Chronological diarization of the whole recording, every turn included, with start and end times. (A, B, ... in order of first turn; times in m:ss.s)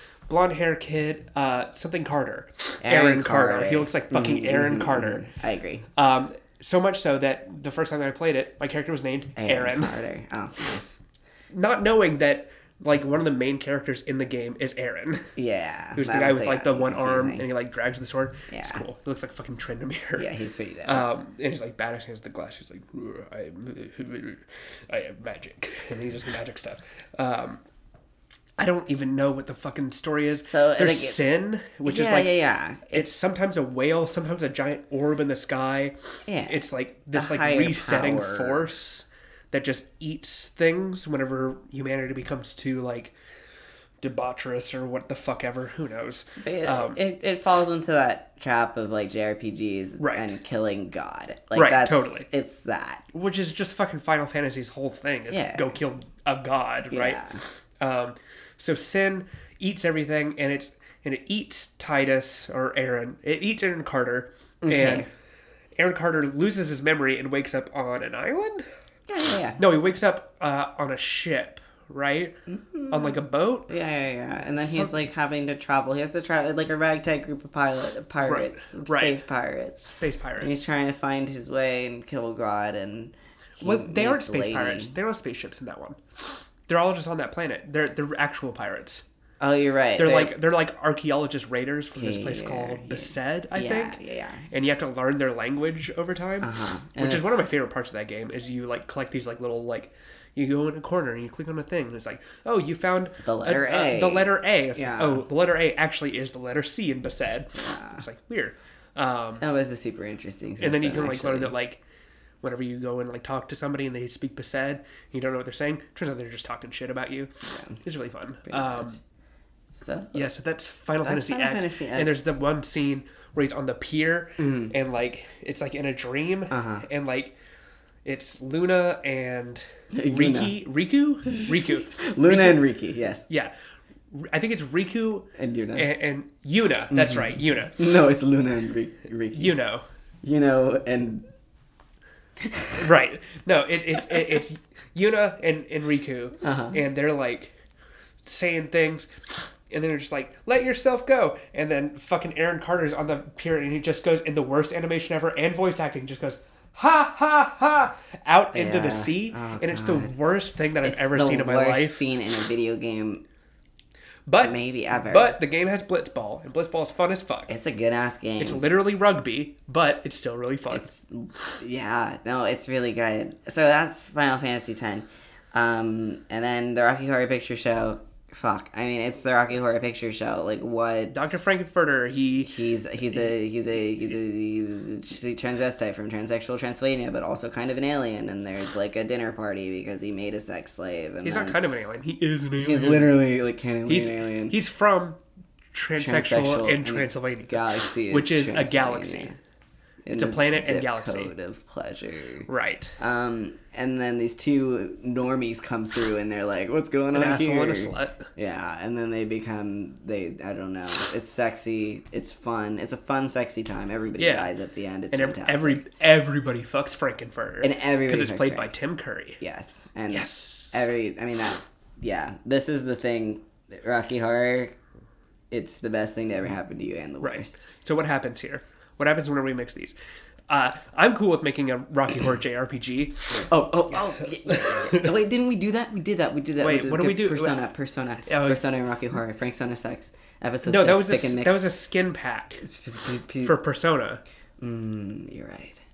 0:00.3-0:05.2 A
0:02.8-0:05.9 B
0:06.0-0:10.0 A
0:09.4-0:11.0 B
0:11.5-0:15.3 A
0:15.4-0:17.5 B
0:16.0-0:20.3 A
0:18.5-0:18.8 B
0:20.2-0:21.1 B
0:20.8-0:27.6 A
0:28.6-0:32.4 A
0:30.5-0:31.2 B
0:31.8-0:33.1 B
0:32.9-0:35.9 A
0:36.3-0:36.6 B
0:36.5-0:43.1 A
0:37.1-0:38.7 B
0:44.0-0:47.0 A
0:46.4-0:53.0 B
0:50.0-0:50.3 A
0:51.6-0:52.3 A
0:53.1-1:05.1 A
0:55.3-0:55.7 B
0:56.9-0:57.4 B
1:04.6-1:05.1 B
1:05.8-1:08.6 A
1:09.1-1:09.6 B
1:09.6-1:12.4 A
1:12.5-1:19.8 B
1:12.9-1:13.7 A
1:14.6-1:14.9 A
1:18.2-1:19.2 A
1:19.8-1:20.6 A
1:20.4-1:25.0 B
1:23.6-1:29.0 A
1:29.4-1:30.3 B
1:30.0-1:34.0 A
1:32.0-1:34.5 B
1:34.5-1:49.4 A
1:36.4-1:37.4 B
1:43.2-1:45.2 B
1:47.6-1:48.0 B
1:49.4-1:51.5 B
1:50.6-1:51.8 A
1:52.4-1:59.0 A
1:57.5-1:57.8 B
1:58.5-1:58.9 B
1:59.7-2:00.3 B
2:00.1-2:07.4 A
2:01.0-2:02.2 B
2:04.4-2:04.7 B
2:06.5-2:06.8 B
2:08.0-2:12.6 A
2:09.9-2:10.5 B
2:11.3-2:13.2 B
2:14.1-2:17.8 A
2:15.4-2:15.9 B
2:16.9-2:19.6 B
2:19.3-2:19.8 A
2:20.2-2:21.2 B
2:22.4-2:22.8 B
2:22.8-2:27.5 A
2:26.4-2:26.8 B
2:28.2-2:42.0 A
2:38.5-2:40.1 B
2:40.8-2:43.2 B
2:44.3-2:47.5 A
2:44.4-2:45.4 B
2:47.5-2:48.6 B
2:48.4-2:50.9 A
2:50.7-3:01.1 B
3:01.1-3:02.5 A
3:02.4-3:11.6 B
3:11.2-3:13.1 A
3:12.6-3:14.6 B
3:13.9-3:15.2 A
3:15.7-3:19.3 A
3:16.0-3:19.4 B
3:20.0-3:22.5 B
3:20.1-3:21.3 A
3:22.5-3:23.0 A
3:23.0-3:35.8 B
3:27.1-3:28.3 A
3:34.2-3:34.5 A
3:35.1-3:39.4 A
3:37.6-3:38.7 B
3:39.4-3:44.8 B
3:40.1-3:40.9 A
3:45.5-3:47.6 B
3:47.2-3:50.0 A
3:50.5-3:53.5 A
3:53.5-4:01.6 B
3:54.5-3:55.1 A
3:56.6-3:57.7 A
3:58.2-3:58.6 A
4:00.6-4:02.6 A
4:02.6-4:03.6 B
4:03.4-4:04.2 A
4:04.6-4:05.8 B